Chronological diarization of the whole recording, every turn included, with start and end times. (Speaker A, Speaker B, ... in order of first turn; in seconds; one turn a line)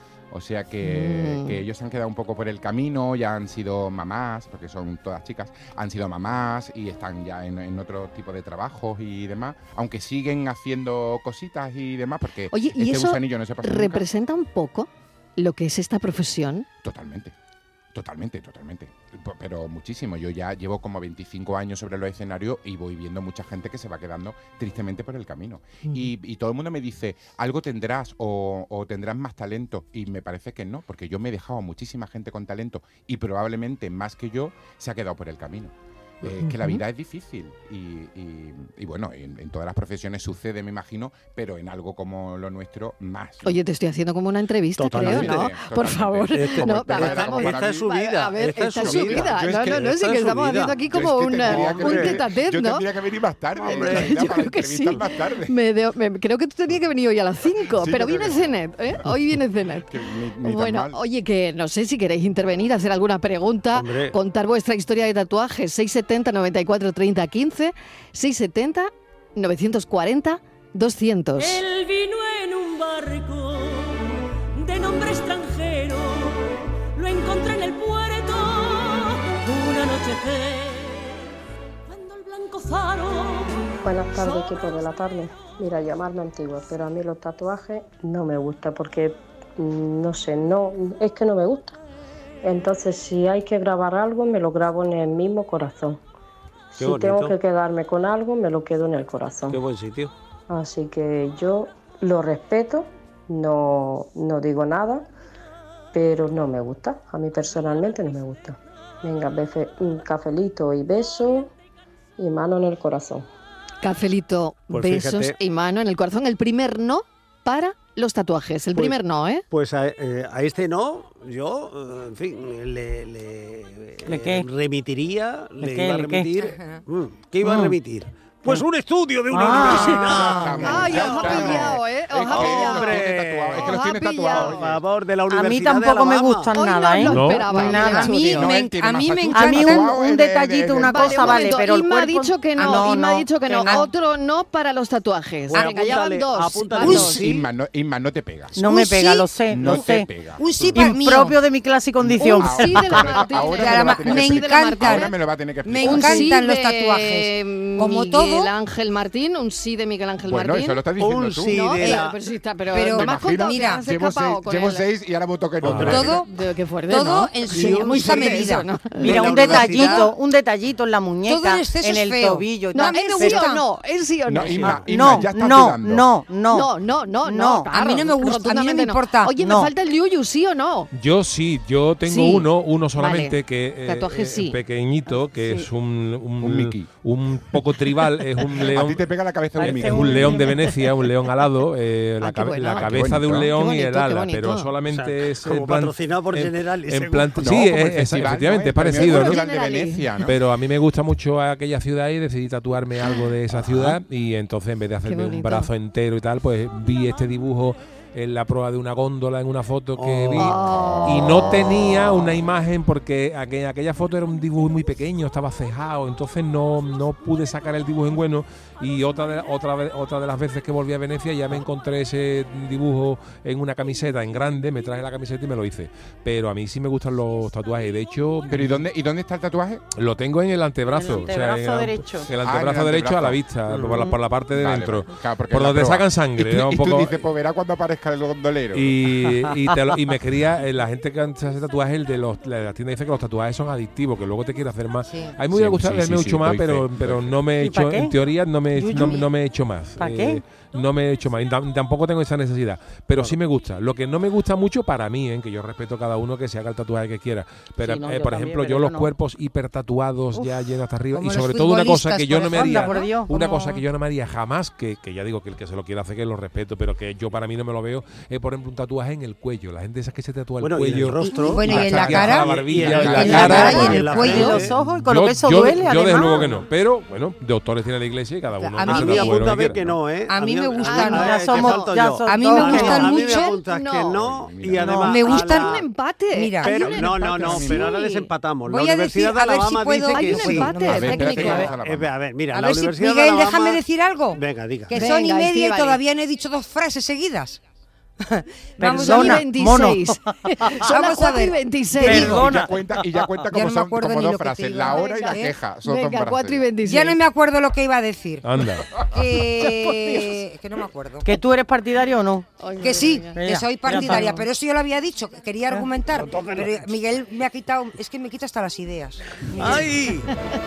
Speaker A: 0.3-14.1
Speaker B: 0.8-1.6
Speaker B: 12.5-16.7
Speaker A: 16.8-17.3
Speaker A: 17.9-43.6
Speaker B: 36.4-36.8
Speaker B: 43.4-52.9
Speaker C: 44.8-45.5
Speaker A: 44.9-47.9
Speaker C: 46.3-52.2
Speaker A: 48.7-49.9
Speaker A: 50.9-55.6
Speaker C: 53.6-55.0
Speaker B: 53.7-59.9
Speaker C: 57.8-58.4
Speaker A: 59.9-61.0
Speaker B: 60.4-71.6
Speaker C: 63.8-64.2
Speaker D: 71.4-81.2
Speaker D: 81.9-84.8
Speaker E: 83.8-91.8
Speaker E: 92.4-96.0
Speaker E: 96.7-99.6
Speaker C: 96.8-97.4
Speaker C: 99.5-100.1
Speaker E: 100.5-105.1
Speaker E: 105.9-111.5
Speaker E: 112.2-113.3
Speaker B: 113.8-119.4
Speaker C: 114.7-115.4
Speaker C: 119.5-131.8
Speaker F: 124.1-124.5
Speaker F: 125.6-126.3
Speaker G: 126.4-126.8
Speaker B: 127.5-127.7
Speaker F: 129.3-130.3
Speaker A: 129.6-134.8
Speaker B: 129.7-134.6
Speaker C: 132.3-136.5
Speaker F: 135.3-138.3
Speaker B: 136.5-138.5
Speaker H: 137.1-137.6
Speaker G: 137.6-139.9
Speaker A: 138.1-141.5
Speaker F: 139.3-143.8
Speaker B: 140.8-147.3
Speaker G: 142.6-143.0
Speaker C: 145.5-147.4
Speaker G: 146.8-147.2
Speaker A: 147.1-148.6
Speaker F: 148.6-150.1
Speaker G: 148.6-149.8
Speaker A: 149.5-150.8
Speaker G: 150.4-151.4
Speaker F: 150.7-153.1
Speaker A: 152.0-156.3
Speaker B: 152.2-155.2
Speaker G: 153.4-155.1
Speaker G: 155.7-158.5
Speaker B: 155.8-160.8
Speaker A: 160.2-161.7
Speaker C: 161.0-162.2
Speaker B: 161.4-164.9
Speaker G: 162.7-163.8
Speaker A: 163.0-166.2
Speaker C: 165.6-166.2
Speaker G: 165.9-166.3
Speaker B: 166.1-169.8
Speaker G: 166.9-170.1
Speaker C: 167.5-168.4
Speaker F: 169.0-173.5
Speaker C: 169.0-170.1
Speaker G: 171.3-173.6
Speaker B: 172.7-174.9
Speaker A: 174.3-176.1
Speaker C: 174.6-175.1
Speaker F: 174.6-176.7
Speaker B: 176.5-180.9
Speaker F: 177.2-177.7
Speaker G: 177.7-179.3
Speaker F: 179.4-179.7
Speaker H: 180.9-189.0
Speaker B: 182.1-184.6
Speaker F: 185.3-185.7
Speaker A: 186.4-186.9
Speaker A: 188.6-190.5
Speaker F: 189.6-190.8
Speaker H: 189.6-199.4
Speaker B: 192.2-194.7
Speaker A: 192.7-193.5
Speaker C: 194.9-197.7
Speaker A: 197.4-200.4
Speaker B: 199.0-200.2
Speaker H: 200.2-228.9
Speaker B: 205.1-205.7
Speaker C: 210.0-210.6
Speaker B: 210.4-211.3
Speaker A: 210.6-212.3
Speaker A: 228.5-229.8
Speaker H: 230.0-237.2
Speaker F: 230.9-232.3
Speaker A: 232.4-233.4
Speaker C: 233.7-234.0
Speaker A: 234.5-239.0
Speaker H: 238.7-280.0
Speaker G: 245.0-245.4
Speaker A: 245.5-247.4
Speaker F: 247.6-248.2
Speaker F: 248.7-249.3
Speaker F: 250.0-250.4
Speaker F: 257.8-259.1
Speaker G: 261.1-263.1
Speaker F: 262.3-263.8
Speaker C: 270.6-274.8
Speaker G: 271.2-274.6
Speaker A: 271.8-273.8
Speaker F: 273.4-276.5
Speaker G: 278.6-279.4
Speaker C: 278.9-285.9
Speaker G: 280.3-281.7
Speaker B: 280.8-282.0
Speaker F: 281.1-283.1
Speaker G: 282.2-283.6
Speaker B: 282.6-284.2
Speaker A: 284.1-285.0
Speaker F: 284.8-285.2
Speaker G: 285.0-285.8
Speaker B: 285.2-288.3
Speaker G: 286.3-287.6
Speaker C: 286.6-293.8
Speaker A: 287.0-287.9
Speaker G: 288.7-291.7
Speaker B: 290.1-291.7
Speaker A: 290.8-292.1
Speaker G: 292.5-297.6
Speaker C: 294.3-295.0
Speaker B: 294.9-296.0
Speaker G: 298.2-299.5
Speaker F: 298.8-300.9
Speaker B: 298.8-302.4
Speaker G: 300.9-302.5
Speaker F: 302.0-303.0
Speaker A: 302.1-306.7
Speaker G: 303.5-305.5
Speaker B: 304.8-307.2
Speaker G: 306.8-311.3
Speaker H: 308.4-308.9
Speaker F: 309.8-310.3
Speaker F: 311.2-312.5
Speaker B: 312.6-313.4
Speaker G: 312.8-319.9
Speaker F: 313.3-314.5
Speaker C: 316.2-316.9
Speaker C: 319.6-320.3
Speaker B: 319.6-320.3